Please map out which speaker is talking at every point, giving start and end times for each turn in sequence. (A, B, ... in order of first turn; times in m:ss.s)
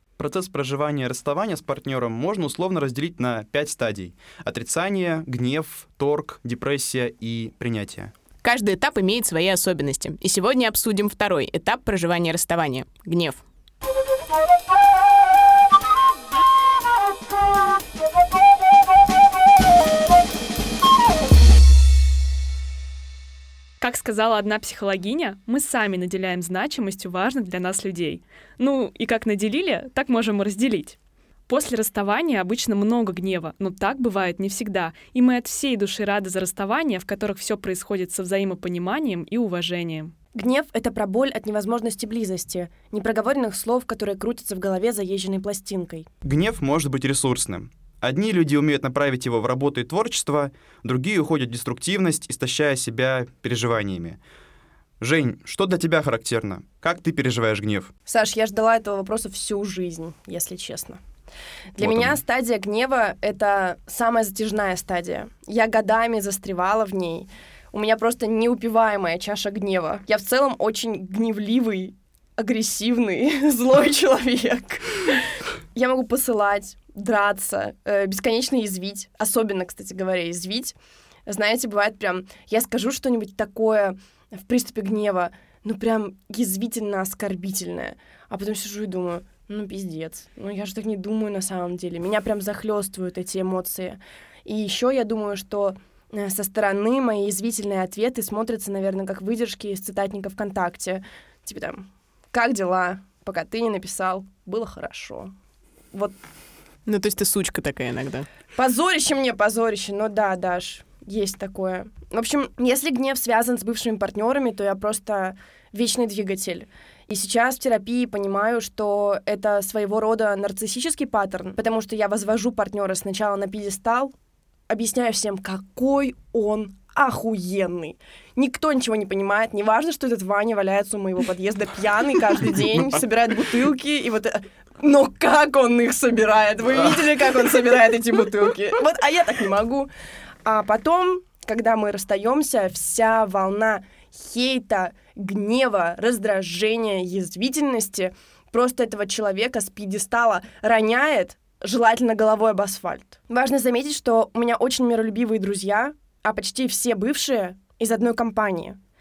0:00.2-0:08.1 A
0:08.4-0:13.4 B
0:23.8-0:31.0 C
0:31.5-0:40.1 C
0:40.3-0:46.1 D
0:46.2-0:54.2 A
0:55.0-0:57.9 A
0:58.1-1:01.0 D
1:01.7-1:20.8 D
1:01.8-1:02.2 A
1:21.3-1:45.3 D
1:46.8-1:48.2 B
1:48.5-2:04.1 D
2:04.7-2:19.9 D
2:20.4-2:38.8 D